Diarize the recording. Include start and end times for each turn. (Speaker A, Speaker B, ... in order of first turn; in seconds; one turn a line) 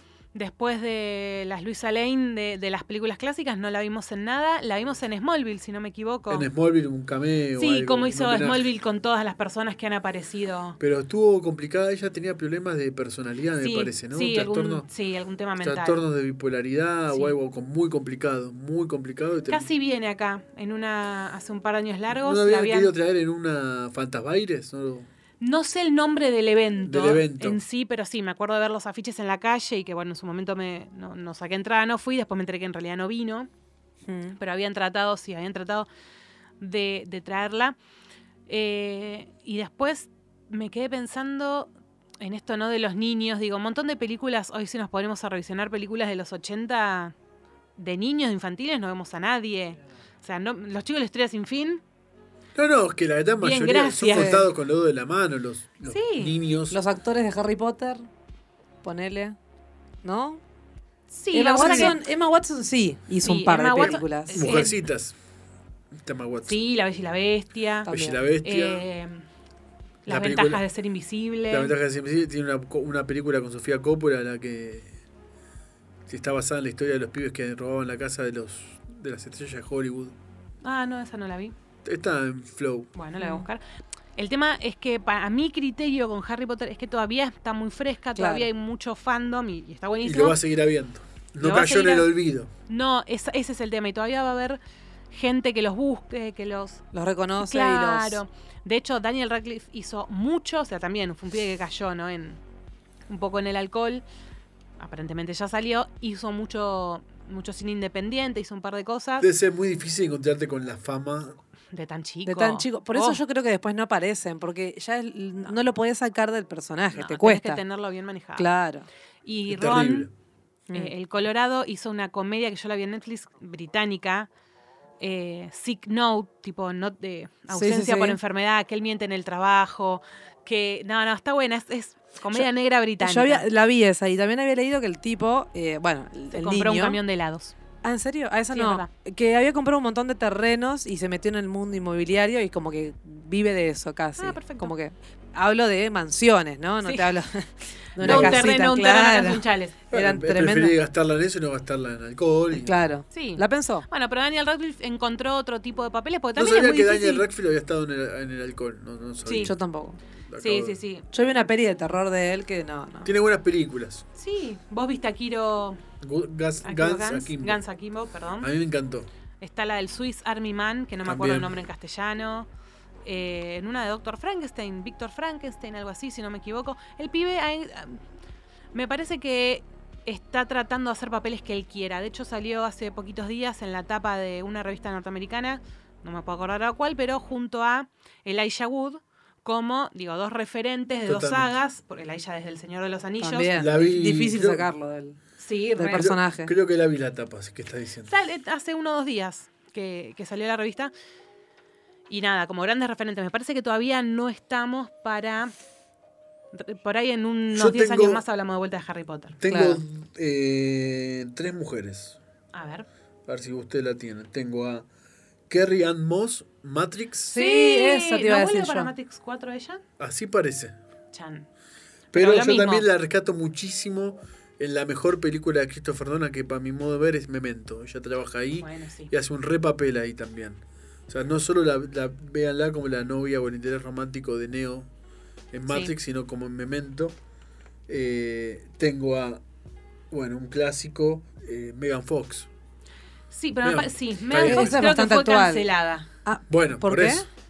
Speaker A: 0.3-6.5
Speaker B: 6.3-8.7
Speaker A: 7.6-10.8
Speaker B: 10.8-14.9
Speaker A: 13.6-16.0
Speaker B: 15.6-19.7
Speaker A: 19.5-22.9
Speaker B: 22.1-25.1
Speaker A: 25.4-33.5
Speaker B: 26.8-27.6
Speaker C: 34.1-34.4
Speaker A: 34.4-35.9
Speaker A: 36.6-37.8
Speaker A: 38.5-47.1
Speaker A: 47.8-51.8
Speaker B: 52.5-56.8
Speaker A: 53.4-54.4
Speaker C: 54.1-54.5
Speaker A: 55.9-56.4
Speaker C: 56.7-58.0
Speaker C: 58.8-59.4
Speaker C: 60.0-60.4
Speaker A: 61.1-62.0
Speaker C: 61.3-64.5
Speaker B: 61.6-61.9
Speaker A: 63.2-64.8
Speaker B: 63.8-65.1
Speaker B: 66.0-66.6
Speaker A: 66.5-67.9
Speaker C: 67.9-68.2
Speaker B: 67.9-68.8
Speaker A: 68.4-69.2
Speaker A: 70.0-71.7
Speaker B: 70.1-70.6
Speaker B: 71.5-74.9
Speaker B: 76.1-80.1
Speaker A: 80.6-81.5
Speaker B: 81.8-82.9
Speaker A: 83.0-83.6
Speaker C: 83.2-83.5
Speaker A: 84.2-90.4
Speaker C: 88.2-88.5
Speaker B: 90.0-92.5
Speaker A: 91.4-92.1
Speaker A: 92.7-94.6
Speaker A: 95.1-96.8
Speaker C: 96.9-98.2
Speaker A: 97.4-102.4
Speaker A: 103.1-104.0
Speaker A: 104.8-109.3
Speaker B: 109.2-111.4
Speaker A: 111.7-113.2
Speaker C: 112.2-117.6
Speaker A: 116.9-118.5
Speaker C: 118.4-118.9
Speaker A: 119.2-120.1
Speaker B: 119.5-120.1
Speaker A: 120.7-124.3
Speaker A: 125.0-133.4
Speaker C: 127.5-128.2
Speaker C: 133.0-137.0
Speaker A: 136.3-137.6
Speaker C: 137.8-150.8
Speaker A: 138.5-138.9
Speaker A: 144.2-144.7
Speaker A: 146.8-147.1
Speaker A: 148.0-149.8
Speaker B: 148.0-148.5
Speaker B: 149.9-152.7
Speaker C: 152.6-153.9
Speaker A: 153.1-157.2
Speaker B: 156.4-159.6
Speaker A: 159.2-159.5
Speaker C: 159.4-160.0
Speaker B: 160.3-160.8
Speaker A: 160.4-161.1
Speaker C: 161.1-163.1
Speaker B: 163.1-164.1
Speaker A: 164.2-165.8
Speaker B: 166.0-167.6
Speaker A: 166.6-168.5
Speaker B: 168.4-169.1
Speaker A: 169.4-172.5
Speaker B: 171.1-171.6
Speaker A: 173.1-178.0
Speaker A: 178.7-193.6
Speaker B: 191.1-191.5
Speaker C: 193.2-195.2
Speaker B: 193.6-194.7
Speaker A: 195.4-196.1
Speaker C: 195.8-196.5
Speaker B: 195.9-198.1
Speaker A: 198.1-200.9
Speaker A: 202.1-205.5
Speaker A: 206.5-209.4
Speaker B: 207.5-208.2
Speaker B: 209.4-212.2
Speaker C: 209.5-209.8
Speaker A: 212.5-212.9
Speaker B: 213.3-214.8
Speaker B: 215.5-217.4
Speaker C: 217.3-218.9
Speaker A: 217.3-219.8
Speaker B: 220.0-220.8
Speaker A: 221.1-221.5
Speaker A: 222.1-222.9
Speaker B: 222.1-234.9
Speaker A: 228.6-229.1
Speaker B: 235.5-237.1
Speaker A: 235.7-235.9
Speaker B: 237.9-239.4
Speaker B: 240.1-242.5
Speaker A: 243.3-246.1
Speaker B: 243.6-244.9
Speaker C: 244.4-245.7
Speaker C: 246.2-247.3
Speaker B: 246.5-247.3